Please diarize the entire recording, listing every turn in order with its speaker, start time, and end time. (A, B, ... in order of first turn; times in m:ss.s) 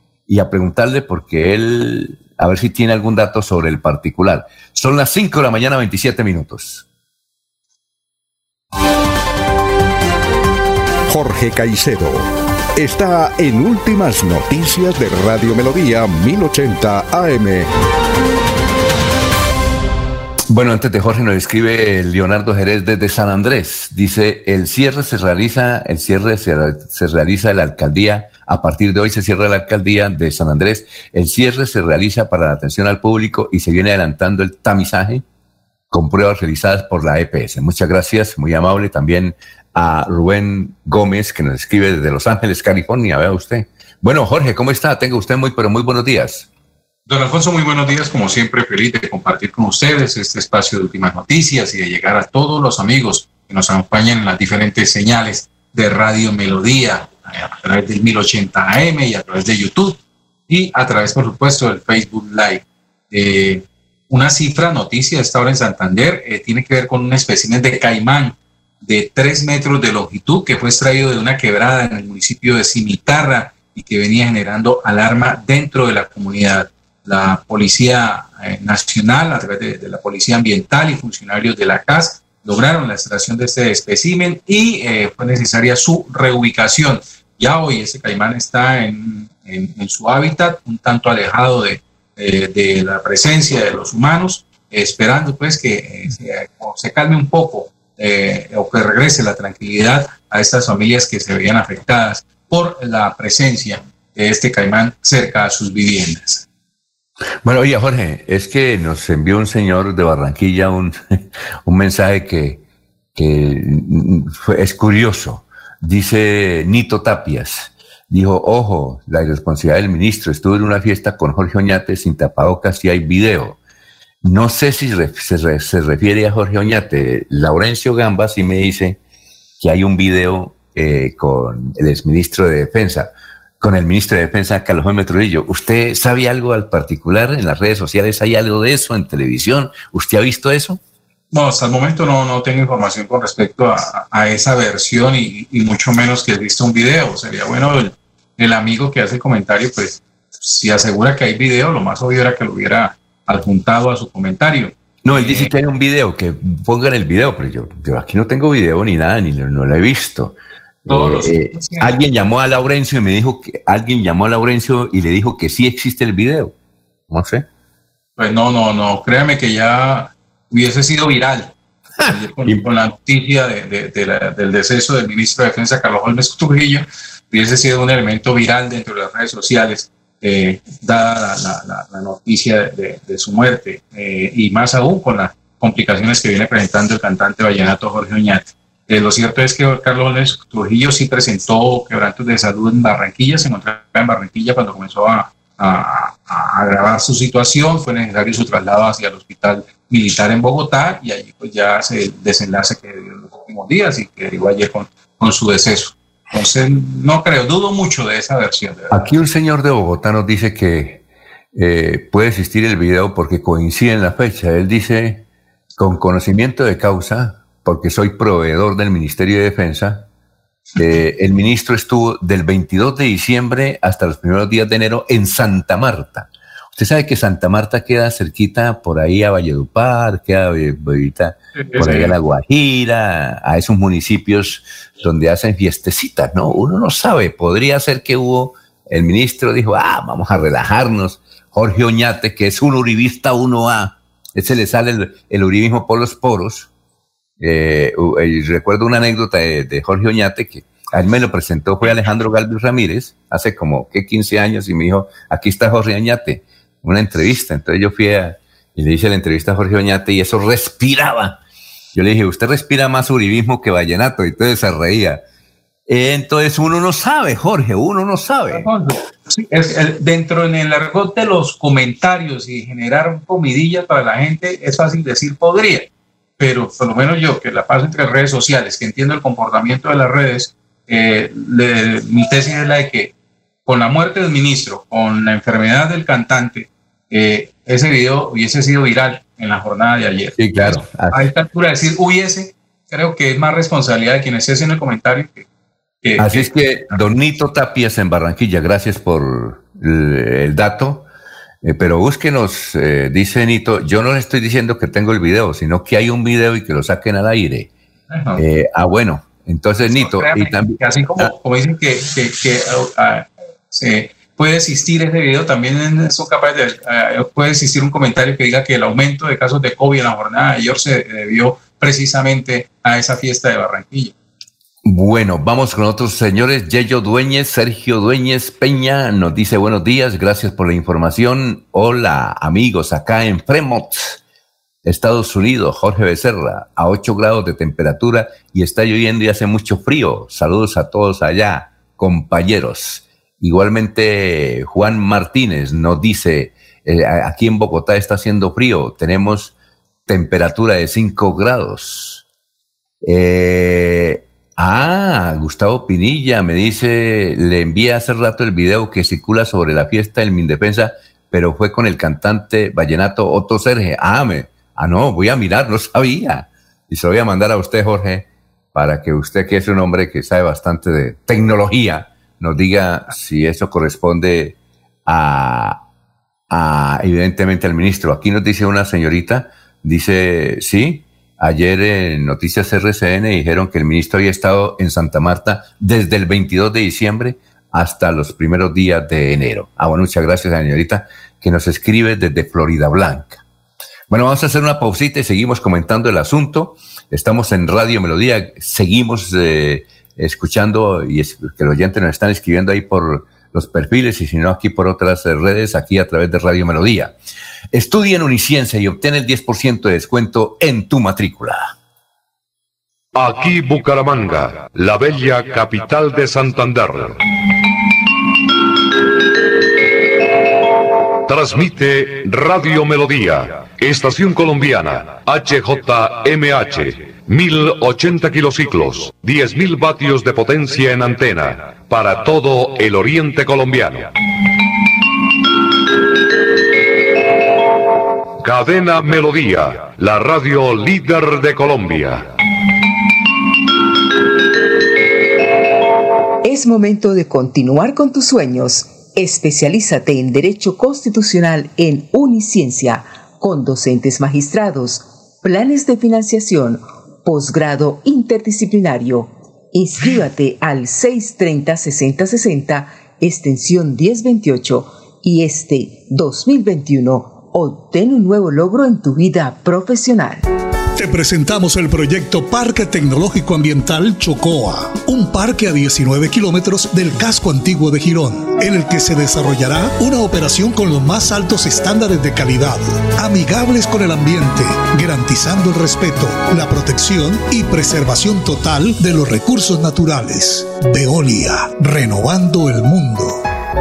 0:00.3-0:06.8 A
0:11.1-0:17.7 B
0:20.5-0:35.2 A
0:35.9-0:46.5 A
0:47.1-1:46.4 C
1:47.4-1:52.6 A
1:53.1-2:03.6 A
2:04.2-2:09.0 A
2:09.6-2:20.8 A
2:21.3-2:35.5 C
2:35.0-2:46.5 A
2:40.9-2:42.0 C
2:47.1-2:47.4 A
2:48.2-2:51.5 C
2:52.0-2:52.6 A
2:52.0-3:28.9 C
3:28.9-3:31.0 A
3:31.5-3:35.2 A
3:35.8-3:40.1 A
3:40.8-4:06.7 A
3:51.6-3:52.2 C
4:07.4-4:21.4 A
4:21.9-4:25.2 A
4:25.9-4:28.7 A
4:28.5-4:43.1 C
4:43.6-4:55.4 C
4:50.4-4:51.3 A
4:56.0-4:56.5 C
4:56.2-5:01.1 A
5:01.6-5:07.7 A
5:08.1-5:08.4 C
5:08.4-5:11.3 A
5:09.9-5:24.1 C
5:24.8-5:34.2 A
5:34.8-5:49.5 A
5:50.1-5:52.2 A
5:53.0-6:15.8 A
6:16.5-6:33.4 A
6:34.1-6:47.1 A
6:47.7-6:51.7 A
6:53.1-6:57.2 D
7:01.3-7:14.1 D
7:18.4-7:22.3 D
7:26.4-7:50.4 E
7:51.0-8:13.4 F